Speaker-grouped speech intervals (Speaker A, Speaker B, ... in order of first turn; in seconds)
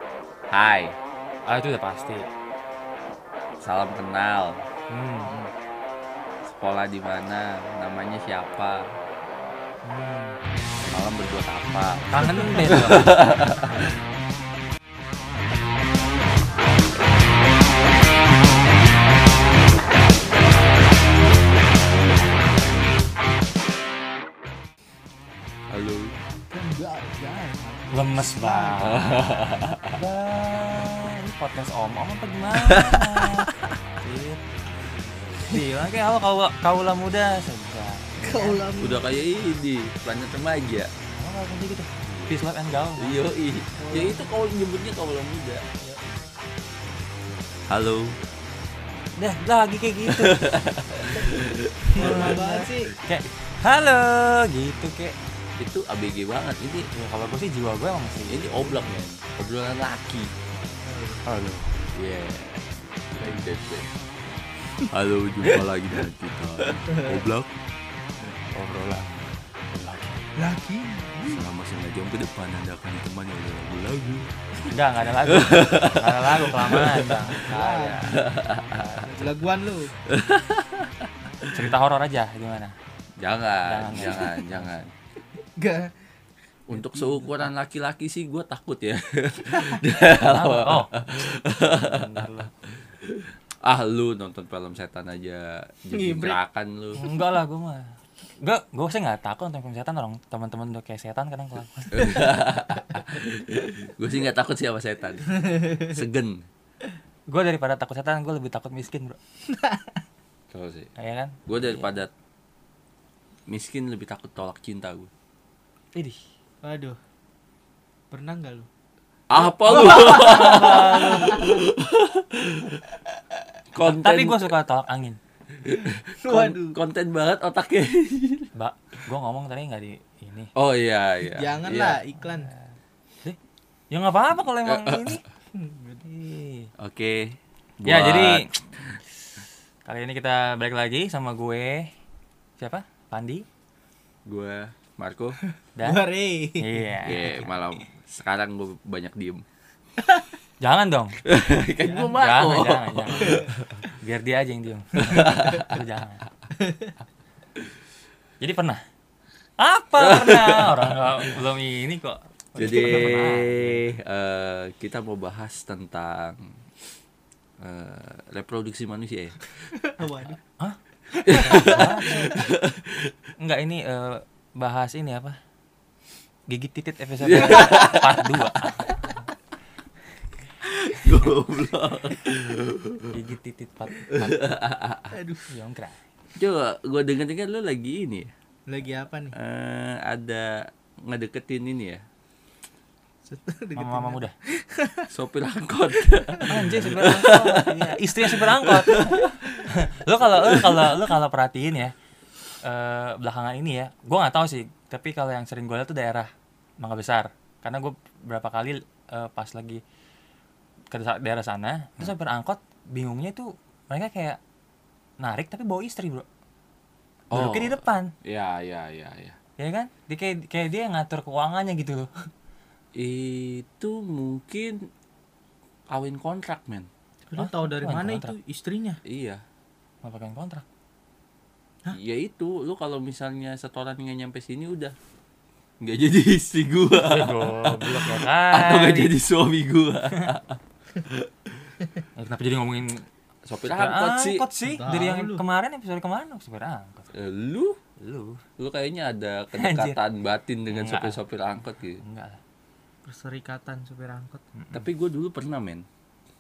Speaker A: 0.5-1.0, 3.6-4.6, 6.5-9.0, 10.9-14.0, 25.7-26.1, 28.8-30.0, 32.6-33.7, 38.8-40.9, 43.0-45.6, 47.7-48.2, 50.1-52.4, 55.6-56.9, 58.3-60.3, 62.0-63.9, 64.9-67.5, 71.3-74.3, 75.2-77.4, 78.1-79.0, 80.0-81.7, 83.2-84.9, 86.7-97.0, 101.9-106.5, 110.5-110.9, 111.5-112.1, 113.5-115.1, 119.3-122.8, 123.7-124.5, 125.5-128.5, 130.6-132.0, 134.4-135.2, 136.8-139.0, 144.3-145.4, 147.0-149.4, 151.2-153.9, 155.0-155.8, 160.0-161.4, 162.6-166.6, 167.6-169.7, 171.3-173.1, 177.2-178.9, 180.9-183.2, 184.1-185.2, 186.3-188.3, 189.3-192.1, 195.1-199.4, 200.3-201.1, 217.3-219.4, 223.0-224.8, 225.9-226.9, 229.1-229.4, 231.9-235.0, 235.8-241.3, 243.4-244.5, 247.1-247.8, 248.6-252.0, 254.7-255.9
Speaker B: 1.5-2.3, 4.9-5.4, 9.8-10.4, 12.1-13.3, 27.9-29.0, 29.9-33.5, 34.0-34.5, 35.4-38.6, 41.0-43.2, 49.2-50.5, 51.9-55.2, 57.0-58.9, 61.2-61.8, 68.5-70.3, 74.7-79.3, 81.5-82.8, 83.7-84.9, 90.2-92.5, 97.0-102.3, 107.3-109.2, 111.0-111.9, 116.0-116.2, 119.8-121.4, 123.8-125.2, 128.6-130.5, 133.9-135.2, 136.0-136.7, 137.8-138.5, 139.9-141.9, 142.6-143.4, 145.8-146.1, 146.6-147.6, 150.6-151.2, 152.0-153.4, 154.0-156.3, 158.4-158.8, 159.6-163.9, 170.6-172.3, 173.4-175.4, 176.5-178.9, 183.1-184.5, 185.5-186.0, 193.8-194.3, 196.5-201.9, 202.6-209.8, 210.9-214.4, 215.2-216.3, 217.3-218.1, 219.6-222.1, 227.4-228.3, 230.0-230.7, 237.0-239.1, 242.2-243.1, 243.6-247.1, 248.0-248.4, 249.5-250.0, 250.7-251.2, 252.0-252.4, 254.6-254.9
Speaker C: 26.5-29.6, 38.2-39.0, 43.8-44.2, 52.0-52.9, 60.8-61.2, 63.2-63.6, 66.8-67.2, 70.4-71.5, 77.4-78.1, 79.0-80.0, 85.4-86.0, 86.7-87.5, 95.9-96.4, 105.5-105.8, 116.6-117.0, 118.1-118.7, 119.4-121.6, 126.2-126.8, 131.3-132.5, 135.5-136.0, 145.8-147.2, 150.0-150.3, 156.6-157.0, 162.7-163.1, 169.8-170.4, 171.1-171.8, 180.8-181.1, 185.1-185.5, 188.7-189.4, 193.3-195.1, 196.0-196.6, 227.3-229.0, 244.6-245.4, 253.1-254.4